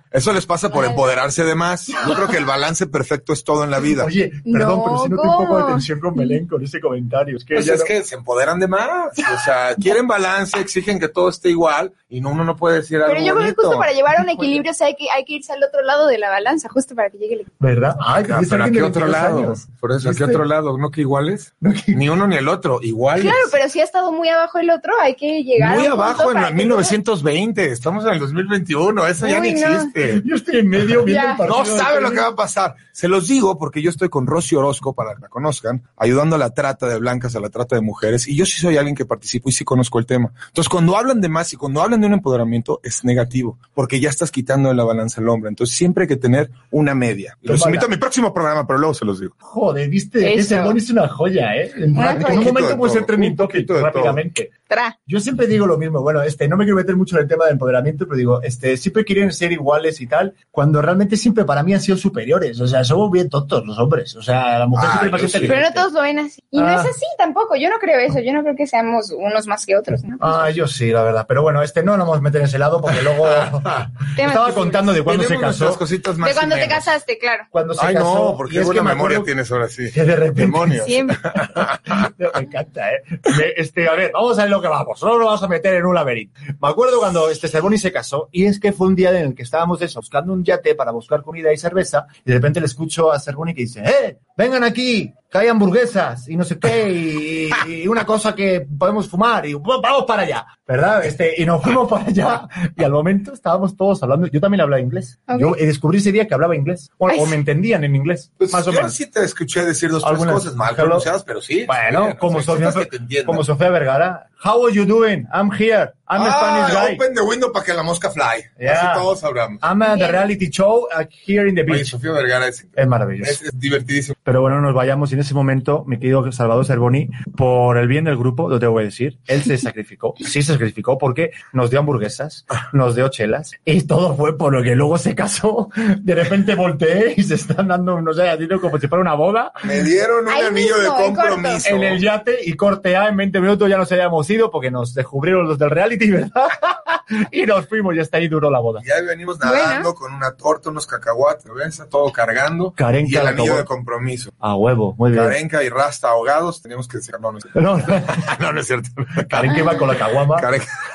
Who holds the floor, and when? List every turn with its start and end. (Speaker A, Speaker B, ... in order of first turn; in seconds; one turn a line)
Speaker A: 0.1-4.1
Speaker B: 3.8-7.9
Speaker C: 4.5-6.3
Speaker A: 7.5-13.9
Speaker C: 13.0-17.5
Speaker B: 17.6-20.4
Speaker A: 18.2-23.5
Speaker B: 21.6-22.0
Speaker C: 23.1-26.9
Speaker A: 25.6-30.2
Speaker C: 29.2-29.9
Speaker B: 30.0-32.2
Speaker C: 31.1-31.4
Speaker A: 31.4-49.3
Speaker B: 47.5-47.9
Speaker B: 49.4-54.5
Speaker C: 50.2-50.8
Speaker C: 51.9-52.5
Speaker A: 52.1-54.2
Speaker C: 54.7-55.0
Speaker B: 55.1-65.8
Speaker A: 64.7-65.7
Speaker C: 65.4-70.5
Speaker B: 66.5-66.9
Speaker B: 70.2-75.8
Speaker C: 74.2-75.0
Speaker A: 75.0-76.9
Speaker C: 76.2-77.5
Speaker B: 77.5-79.3
Speaker A: 77.8-82.1
Speaker B: 79.9-80.8
Speaker C: 80.8-81.2
Speaker B: 81.9-108.9
Speaker C: 105.3-105.6
Speaker C: 107.1-107.3
Speaker A: 108.4-113.4
Speaker B: 110.0-111.1
Speaker B: 111.7-117.0
Speaker A: 116.1-119.6
Speaker B: 118.6-119.1
Speaker B: 119.6-121.9
Speaker C: 119.9-120.2
Speaker A: 121.7-124.2
Speaker B: 122.8-123.4
Speaker B: 124.2-139.8
Speaker A: 139.6-142.0
Speaker C: 140.3-141.6
Speaker B: 141.6-148.8
Speaker A: 148.8-154.3
Speaker C: 149.4-149.9
Speaker B: 152.8-153.7
Speaker B: 154.4-155.4
Speaker A: 155.1-159.6
Speaker B: 157.5-158.3
Speaker B: 159.3-160.5
Speaker A: 160.3-160.7